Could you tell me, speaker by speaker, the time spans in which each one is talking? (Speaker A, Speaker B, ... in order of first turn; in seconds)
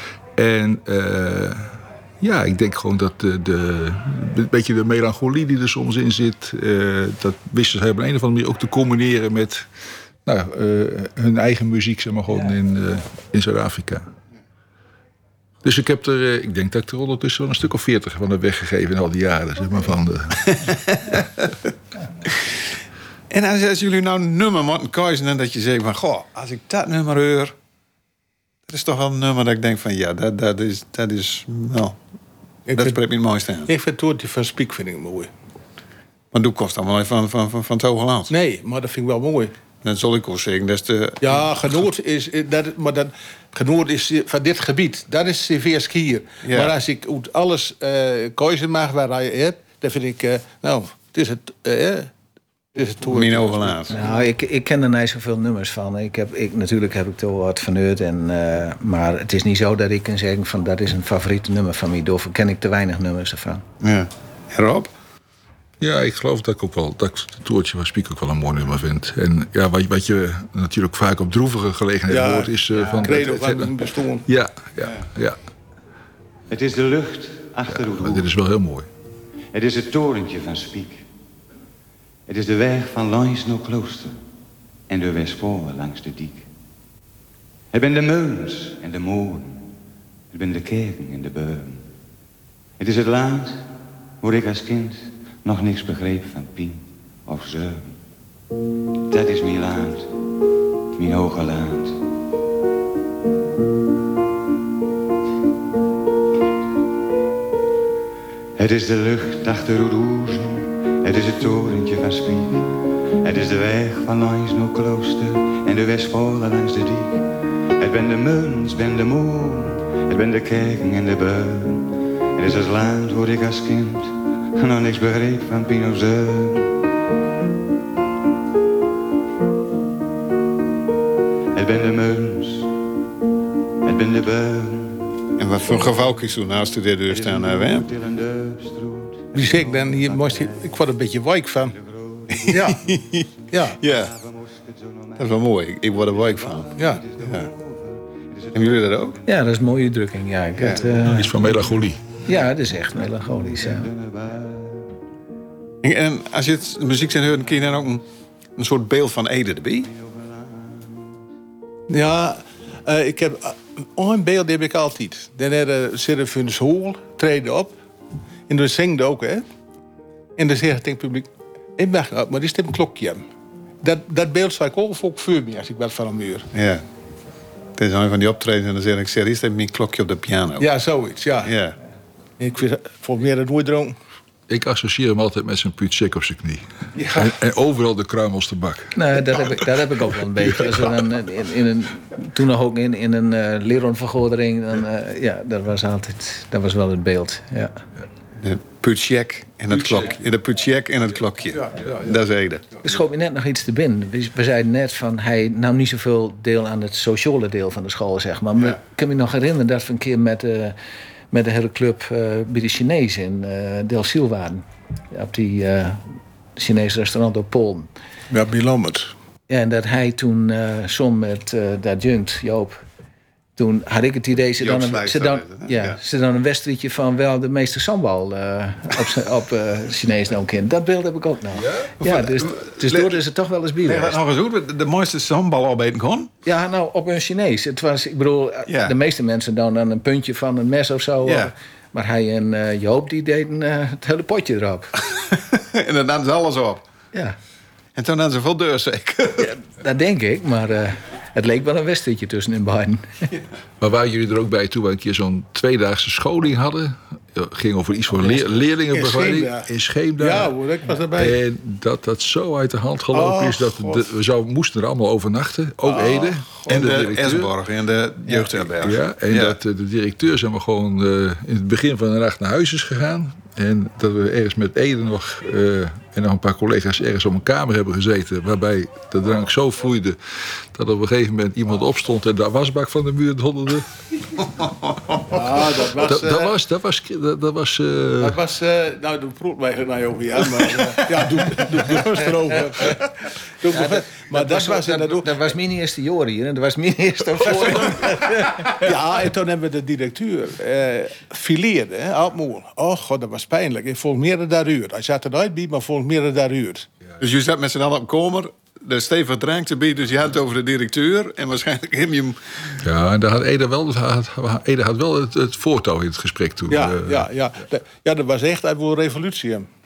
Speaker A: 0.4-9.7, 10.3-14.1, 15.6-20.6, 65.8-73.7, 74.3-75.4, 77.7-78.9, 151.1-152.2, 184.5-189.5, 231.6-231.9, 253.8-260.5, 261.1-267.5, 268.8-283.9, 285.9-288.4, 312.8-317.3
Speaker B: 20.4-21.6, 23.3-27.6, 28.7-32.0, 32.7-33.7, 36.3-38.3, 39.8-41.5, 46.5-46.7, 53.1-54.0, 63.8-64.9, 135.4-137.9, 142.3-143.3, 143.8-144.1, 145.2-147.5, 148.5-149.2, 150.6-150.8, 155.8-158.0, 158.6-159.9, 176.5-176.8, 177.8-180.7, 181.4-181.8, 198.4-202.7, 224.6-226.0, 232.0-233.2, 233.8-236.3, 238.7-239.0, 241.2-241.5, 245.3-246.8, 248.0-249.5, 266.7-269.6, 284.4-285.4, 307.2-312.4
Speaker C: 32.7-33.0, 33.7-35.3, 38.3-39.5, 41.2-52.1, 52.8-54.1, 72.1-74.3, 139.3-141.8, 142.5-142.8, 143.5-143.8, 146.8-147.1, 161.9-167.8, 168.5-169.4, 170.4-173.2, 173.8-176.5, 180.6-181.5, 182.4-184.0, 187.0-187.3, 218.3-219.1, 258.3-261.4, 263.1-264.1, 265.9-266.4, 285.3-286.5, 288.2-295.3, 297.4-306.9, 316.7-319.7
Speaker D: 53.9-63.6, 149.2-151.6, 152.3-153.9, 188.9-197.8, 202.8-210.8, 211.3-216.1, 216.6-217.9, 219.5-222.8, 223.6-234.2, 236.4-244.9, 249.4-253.3, 293.7-298.9
Speaker E: 76.5-78.3, 79.5-81.1, 82.3-84.2, 84.9-86.5, 87.7-89.7, 90.3-91.9, 92.8-98.0, 99.1-100.1, 101.0-102.0, 108.6-126.8, 131.5-132.7, 133.8-136.1, 137.1-140.9, 141.6-149.2, 150.6-155.0, 159.8-161.2